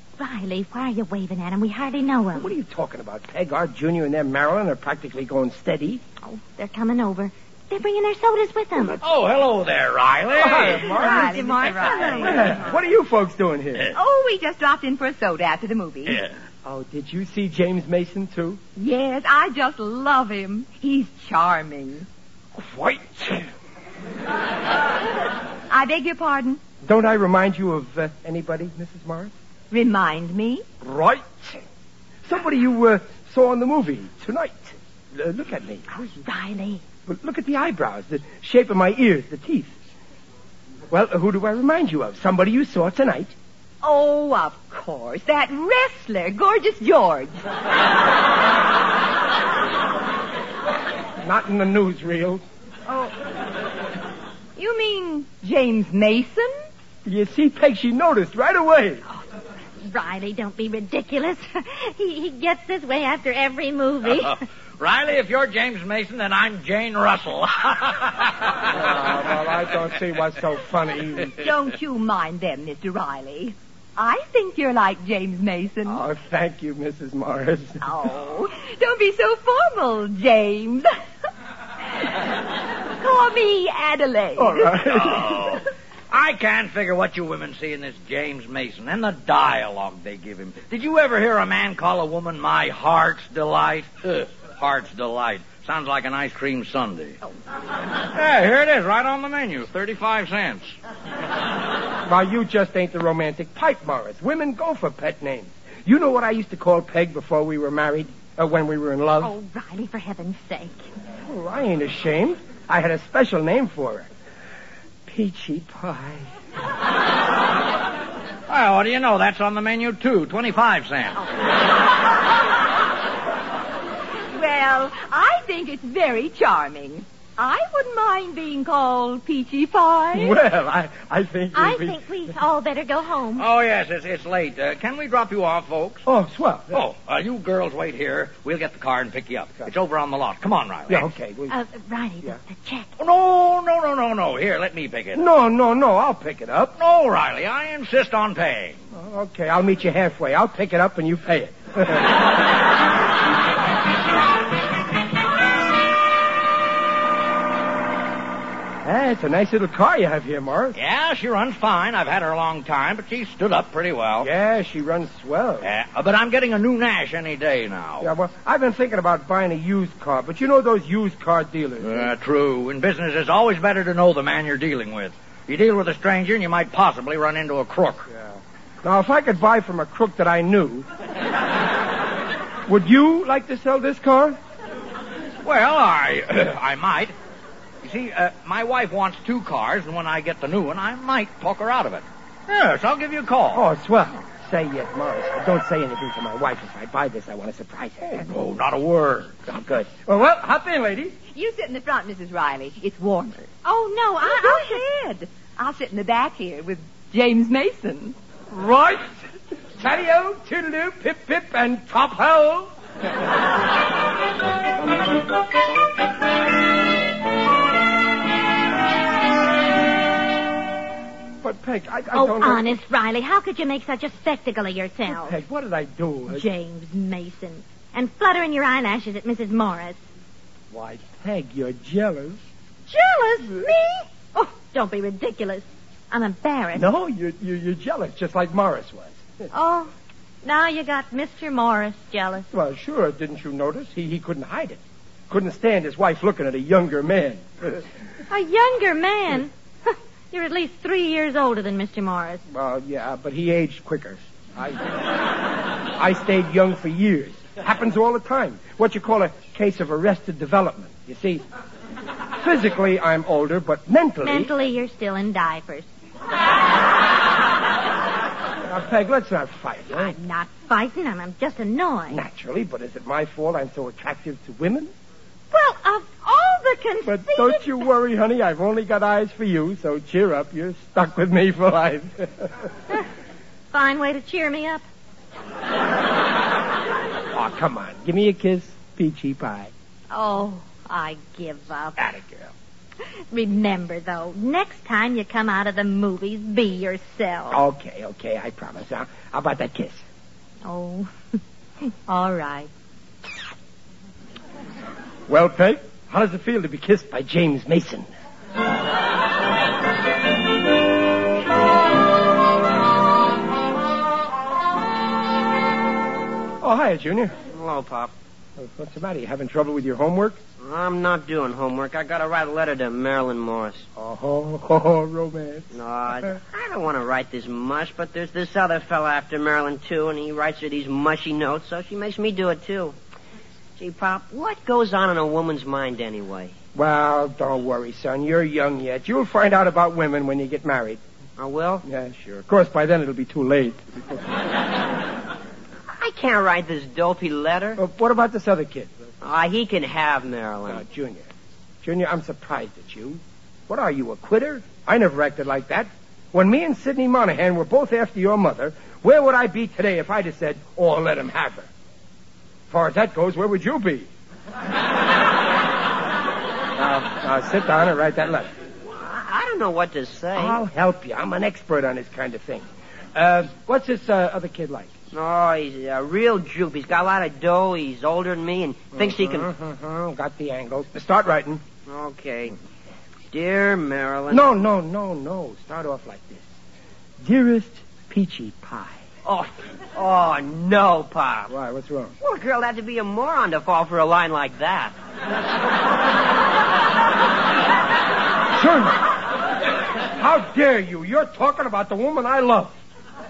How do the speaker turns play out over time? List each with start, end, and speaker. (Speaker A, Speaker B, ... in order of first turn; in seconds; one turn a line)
Speaker A: 0.2-2.5
Speaker B: 2.3-6.0
Speaker A: 6.2-9.0
Speaker C: 9.0-11.0
Speaker B: 10.3-11.5
Speaker D: 10.7-12.6
Speaker A: 10.9-12.5
Speaker B: 12.1-13.9
Speaker D: 13.9-16.2
Speaker B: 16.6-18.6
Speaker D: 18.8-22.1
Speaker B: 22.5-23.5
Speaker D: 25.7-26.6
Speaker B: 26.8-29.3
Speaker D: 29.7-30.6
Speaker B: 30.8-31.6
Speaker B: 32.2-35.8
Speaker A: 35.9-36.8
Speaker B: 37.1-39.7
Speaker B: 40.9-43.3
Speaker D: 43.8-47.4
Speaker B: 51.2-52.4
Speaker D: 52.9-53.1
Speaker D: 54.6-56.5
Speaker B: 57.0-59.0
Speaker A: 59.8-64.4
Speaker C: 64.1-68.6
Speaker B: 68.7-71.4
Speaker D: 71.4-76.0
Speaker B: 75.9-77.9
Speaker D: 77.8-80.9
Speaker D: 83.0-84.9
Speaker B: 84.4-85.6
Speaker C: 84.9-97.2
Speaker C: 98.1-100.8
Speaker B: 102.0-109.3
Speaker A: 109.2-110.8
Speaker B: 111.2-114.1
Speaker B: 115.1-116.3
Speaker C: 118.5-121.2
Speaker D: 124.3-130.4
Speaker B: 130.1-132.0
Speaker A: 131.5-133.5
Speaker C: 133.4-136.0
Speaker B: 136.1-136.8
Speaker C: 136.7-141.1
Speaker B: 140.9-141.6
Speaker A: 141.5-142.9
Speaker C: 143.0-145.2
Speaker B: 145.1-146.8
Speaker C: 146.8-148.8
Speaker B: 148.9-152.2
Speaker B: 158.8-160.8
Speaker C: 160.8-164.3
Speaker B: 164.2-165.7
Speaker C: 165.6-168.1
Speaker B: 168.0-172.1
Speaker C: 171.8-178.1
Speaker B: 178.8-180.9
Speaker B: 182.7-184.4
Speaker C: 185.4-187.1
Speaker C: 187.8-193.6
Speaker B: 193.5-198.2
Speaker C: 198.1-199.4
Speaker B: 199.5-201.1
Speaker D: 201.3-203.5
Speaker A: 203.6-204.8
Speaker D: 204.2-208.2
Speaker B: 208.5-209.2
Speaker B: 209.8-212.7
Speaker B: 221.4-222.8
Speaker A: 222.1-225.4
Speaker B: 225.1-226.4
Speaker A: 226.3-230.0
Speaker B: 230.7-232.4
Speaker A: 232.9-236.9
Speaker B: 236.7-239.2
Speaker A: 239.5-242.4
Speaker B: 242.5-247.8
Speaker A: 248.3-252.4
Speaker B: 252.5-254.9
Speaker B: 255.9-261.4
Speaker B: 262.4-264.5
Speaker A: 264.2-265.9
Speaker B: 268.6-270.2
Speaker A: 269.9-272.2
Speaker B: 272.1-274.9
Speaker A: 275.5-277.8
Speaker B: 277.0-282.6
Speaker A: 283.7-284.8
Speaker B: 287.3-289.7
Speaker A: 290.1-292.1
Speaker B: 292.0-292.5
Speaker A: 293.3-297.6
Speaker B: 297.5-300.0
Speaker A: 300.6-301.1
Speaker A: 302.1-302.7
Speaker B: 305.3-308.1
Speaker B: 316.6-317.4
Speaker E: 317.5-318.1
Speaker B: 318.6-320.4
Speaker E: 320.6-323.9
Speaker B: 324.0-326.4
Speaker E: 325.7-333.0
Speaker E: 333.8-336.5
Speaker B: 336.8-341.0
Speaker E: 341.4-341.9
Speaker B: 341.8-344.2
Speaker E: 345.9-347.8
Speaker B: 347.8-348.9
Speaker E: 349.2-350.8
Speaker B: 350.6-351.3
Speaker B: 351.8-361.7
Speaker B: 362.7-364.1
Speaker B: 366.8-368.5
Speaker E: 368.9-370.6
Speaker B: 370.4-374.9
Speaker E: 375.1-379.5
Speaker B: 378.9-381.6
Speaker E: 381.9-382.5
Speaker E: 383.3-384.5
Speaker B: 384.3-386.5
Speaker B: 387.2-389.0
Speaker E: 389.2-391.5
Speaker B: 391.5-392.1
Speaker E: 392.2-394.9
Speaker B: 398.5-399.0
Speaker B: 400.1-402.8